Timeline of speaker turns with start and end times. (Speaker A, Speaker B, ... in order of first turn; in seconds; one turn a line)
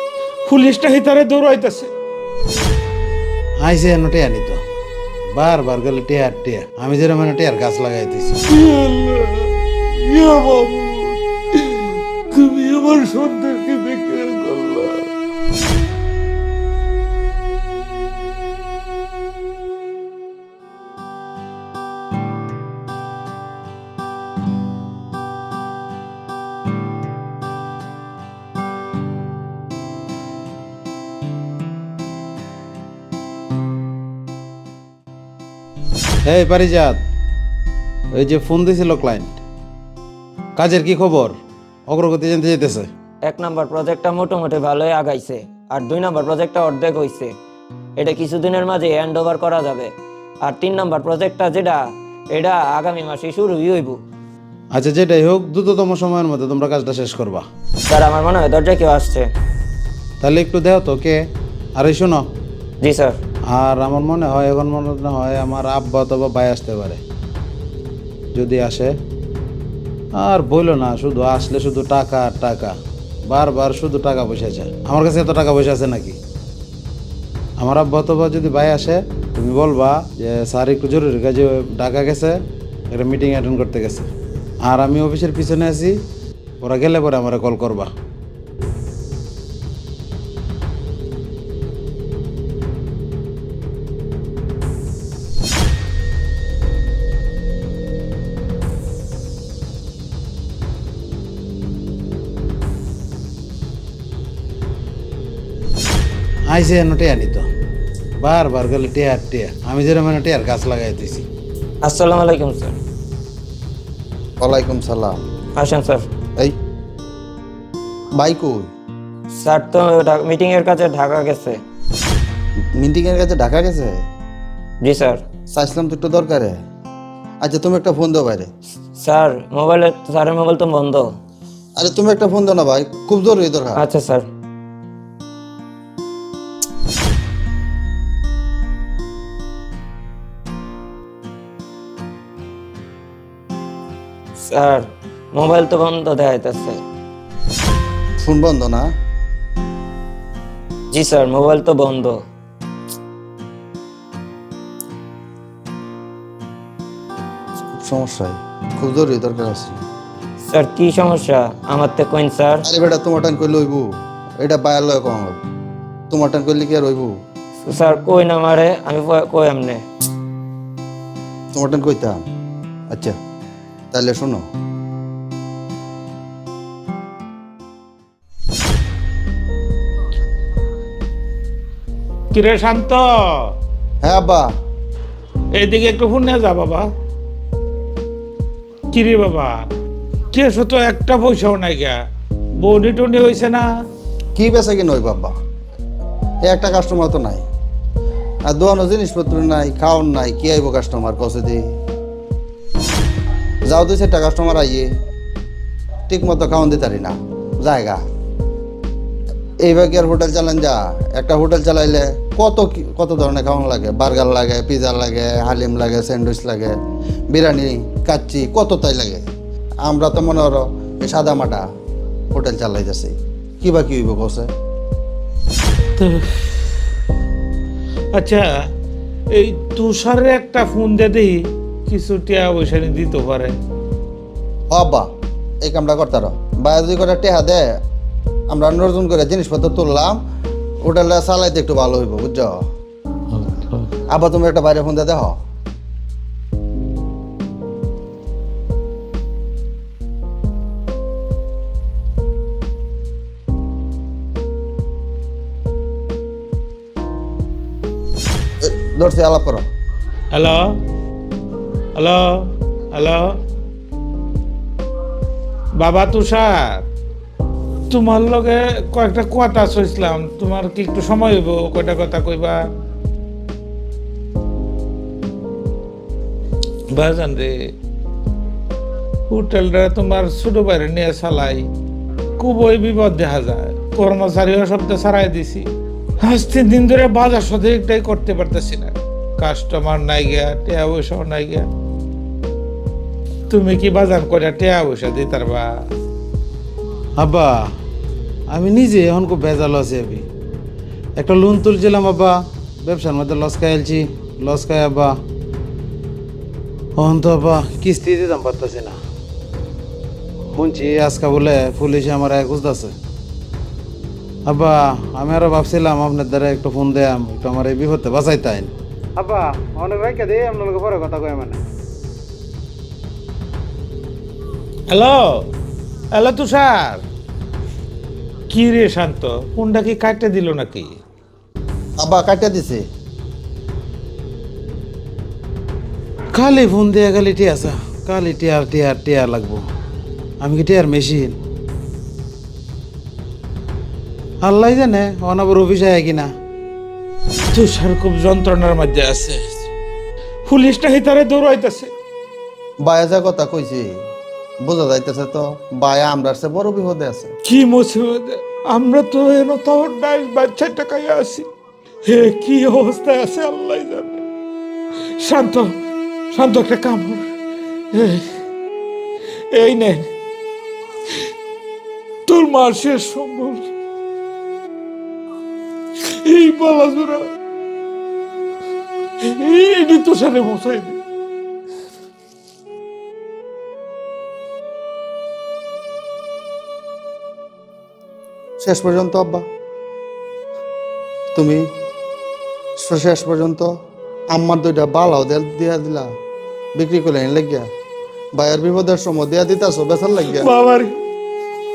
Speaker A: 0.5-1.9
Speaker B: 3.6-4.6
Speaker B: 5.3-8.4
Speaker A: 8.5-9.5
Speaker A: 10.1-11.2
Speaker A: 12.4-14.9
Speaker B: 36.2-37.0
Speaker B: 38.1-39.4
Speaker B: 40.6-42.9
Speaker C: 43.2-47.3
Speaker C: 48.0-49.9
Speaker C: 50.4-51.8
Speaker C: 52.3-54.0
Speaker B: 54.7-57.5
Speaker C: 57.9-59.3
Speaker B: 60.2-61.2
Speaker B: 61.8-62.3
Speaker C: 62.8-63.2
Speaker B: 63.5-67.0
Speaker B: 68.3-69.0
Speaker B: 70.2-76.2
Speaker B: 77.6-84.1
Speaker B: 84.6-86.0
Speaker B: 86.6-87.9
Speaker B: 106.5-107.5
Speaker B: 108.2-111.3
Speaker C: 111.8-112.8
Speaker D: 114.4-115.2
Speaker C: 115.6-116.0
Speaker D: 118.2-118.7
Speaker C: 119.4-121.6
Speaker D: 122.8-124.0
Speaker C: 124.8-125.2
Speaker D: 125.5-126.5
Speaker D: 127.4-128.5
Speaker C: 129.0-131.1
Speaker D: 131.8-133.8
Speaker C: 133.8-134.3
Speaker C: 144.4-146.8
Speaker D: 148.2-148.9
Speaker C: 150.9-152.2
Speaker D: 157.7-159.8
Speaker C: 160.5-162.6
Speaker D: 162.7-163.9
Speaker D: 164.4-165.4
Speaker D: 166.1-167.1
Speaker C: 167.7-169.8
Speaker D: 171.5-172.2
Speaker D: 173.9-174.4
Speaker A: 182.3-183.5
Speaker D: 184.0-184.5
Speaker A: 185.6-186.8
Speaker A: 188.9-189.5
Speaker A: 190.3-192.0
Speaker A: 192.6-193.6
Speaker D: 194.4-195.3
Speaker D: 196.4-197.4
Speaker D: 198.5-201.6
Speaker D: 203.7-204.9
Speaker D: 206.1-208.0
Speaker D: 209.6-216.8
Speaker D: 217.3-219.2
Speaker D: 219.8-221.7
Speaker D: 222.3-224.5
Speaker A: 226.0-226.7
Speaker A: 228.2-228.5
Speaker A: 229.3-233.5
Speaker D: 234.7-235.1
Speaker D: 235.6-237.6
Speaker D: 238.5-240.2
Speaker D: 240.9-242.6
Speaker D: 244.1-245.3
Speaker D: 258.6-259.6
Speaker A: 260.3-260.7
Speaker A: 262.0-262.4
Speaker A: 262.9-263.2
Speaker A: 265.8-266.8
Speaker A: 267.9-272.6
Speaker A: 276.9-277.6
Speaker A: 279.3-281.6
Speaker A: 282.4-285.7
Speaker A: 286.2-291.7
Speaker A: 293.5-295.7
Speaker B: 297.2-297.7
Speaker B: 298.5-300.2
Speaker B: 301.2-305.2
Speaker B: 307.0-309.0
Speaker B: 310.6-312.9
Speaker B: 314.5-321.6
Speaker A: 324.9-325.2
Speaker A: 326.1-327.0
Speaker A: 328.5-330.9
Speaker D: 332.0-332.8
Speaker B: 336.3-339.6
Speaker B: 340.4-341.4
Speaker B: 344.4-346.3
Speaker A: 347.5-349.6
Speaker A: 350.5-351.9
Speaker D: 352.8-353.9
Speaker D: 354.6-357.3
Speaker A: 357.5-361.5
Speaker A: 362.1-364.2
Speaker A: 365.2-365.7
Speaker A: 366.3-367.2
Speaker A: 367.9-368.2
Speaker A: 369.5-370.1
Speaker A: 372.3-373.7
Speaker A: 376.1-377.3
Speaker A: 379.2-381.0
Speaker D: 388.6-389.4
Speaker D: 391.4-391.6
Speaker D: 392.8-393.7
Speaker D: 394.3-396.1
Speaker D: 396.8-397.7
Speaker D: 398.4-400.5
Speaker A: 400.3-400.9